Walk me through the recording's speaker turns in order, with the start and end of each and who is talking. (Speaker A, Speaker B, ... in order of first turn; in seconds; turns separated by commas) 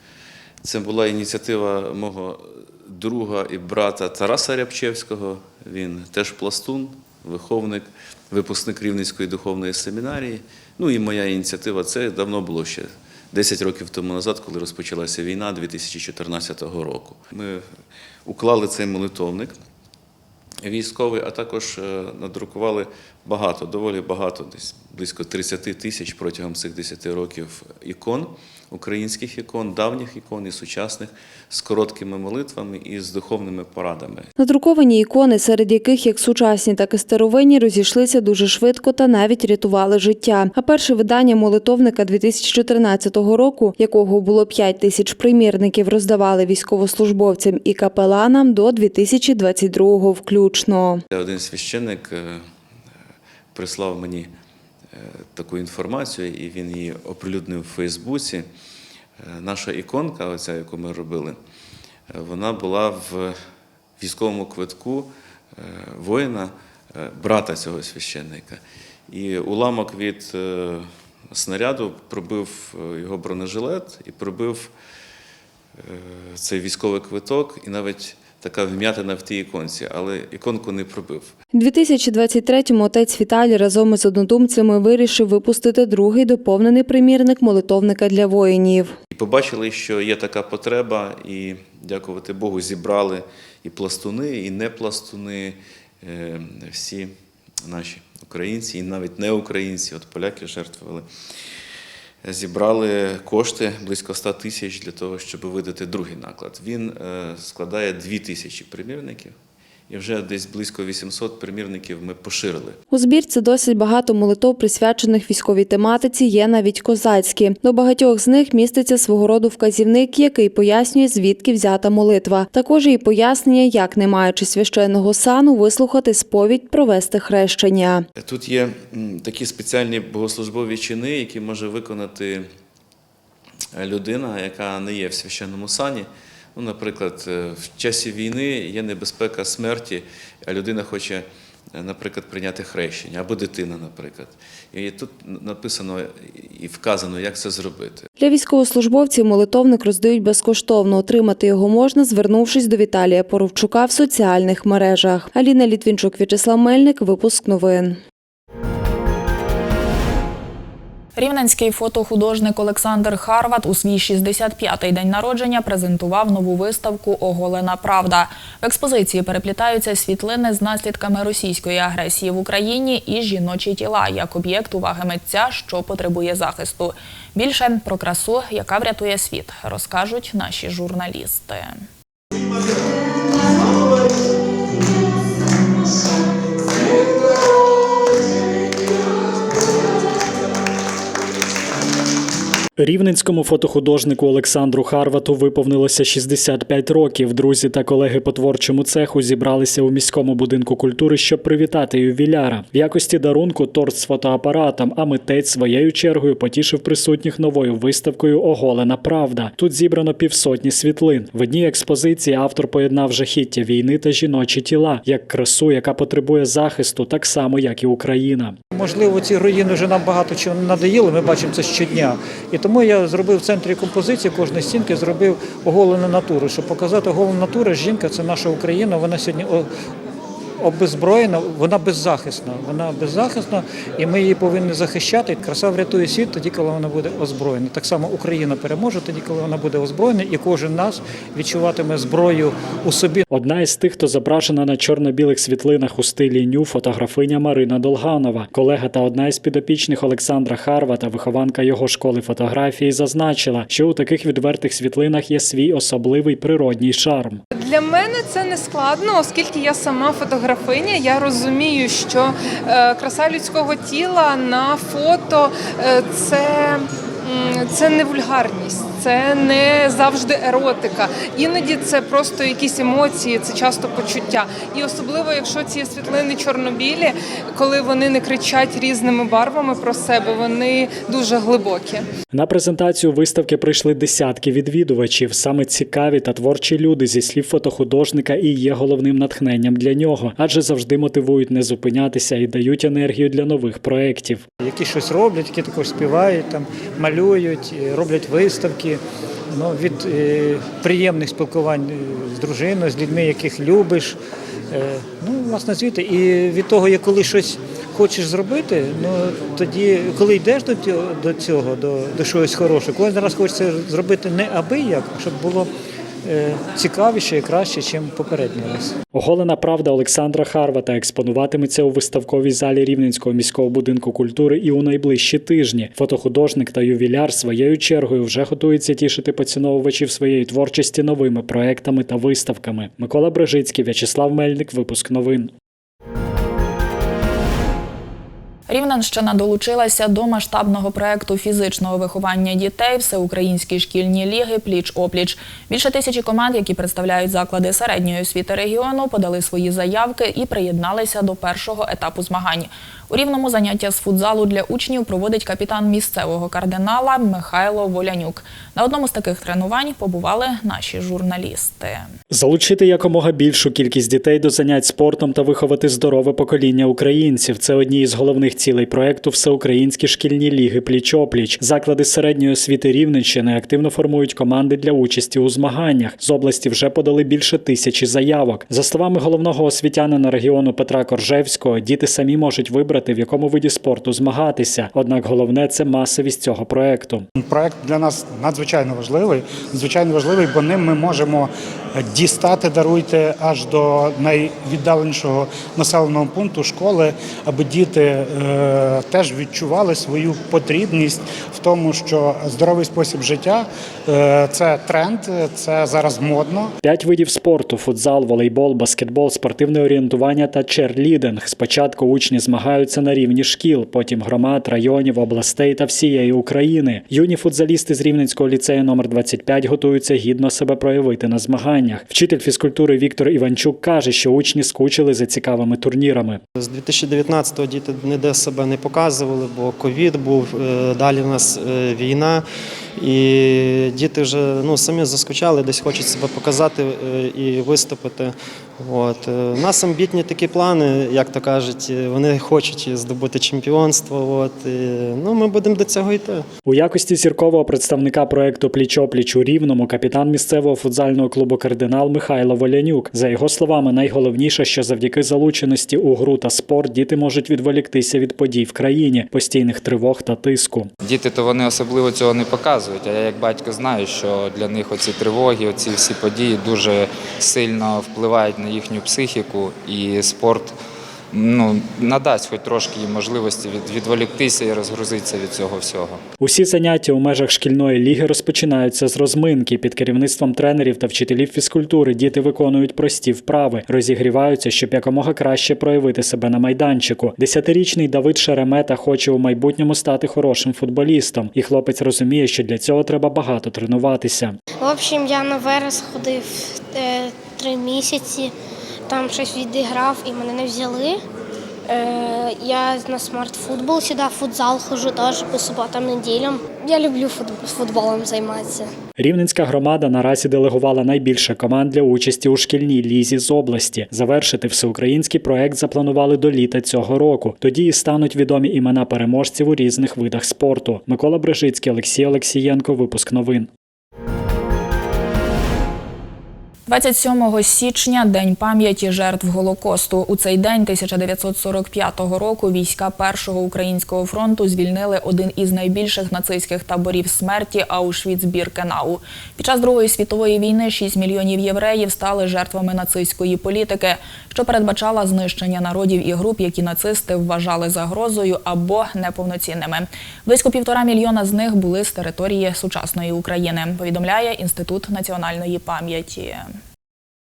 Speaker A: 0.6-17.7, Speaker A: 18.2-19.6, Speaker A: 20.6-34.3, Speaker B: 34.4-51.0, Speaker A: 51.1-52.5, Speaker A: 53.5-54.3, Speaker A: 54.9-58.5, Speaker A: 59.2-61.4, Speaker A: 62.1-63.4, Speaker A: 64.0-74.7, Speaker A: 75.8-81.3, Speaker B: 81.5-88.9, Speaker A: 89.1-101.0, Speaker A: 102.2-109.4, Speaker A: 109.9-112.8, Speaker B: 112.9-128.0, Speaker A: 128.2-132.5, Speaker A: 133.7-148.1, Speaker B: 148.2-158.0, Speaker C: 161.2-181.8, Speaker D: 192.8-218.6, Speaker E: 218.7-229.7, Speaker E: 230.6-243.2, Speaker D: 243.3-257.4, Speaker F: 257.5-282.1, Speaker D: 282.3-294.4, Speaker E: 294.6-304.2, Speaker E: 304.7-315.7, Speaker E: 316.2-318.9, Speaker D: 319.1-335.5, Speaker C: 338.7-362.1, Speaker D: 362.3-387.3, Speaker G: 387.4-406.7, Speaker D: 406.8-426.4, Speaker H: 426.6-432.4, Speaker H: 433.0-446.4, Speaker D: 446.6-460.9, Speaker I: 461.0-470.7, Speaker I: 471.3-476.2, Speaker D: 476.4-494.6, Speaker J: 494.8-498.5, Speaker J: 499.1-501.2, Speaker J: 501.9-508.9, Speaker D: 509.2-523.7, Speaker C: 526.9-556.7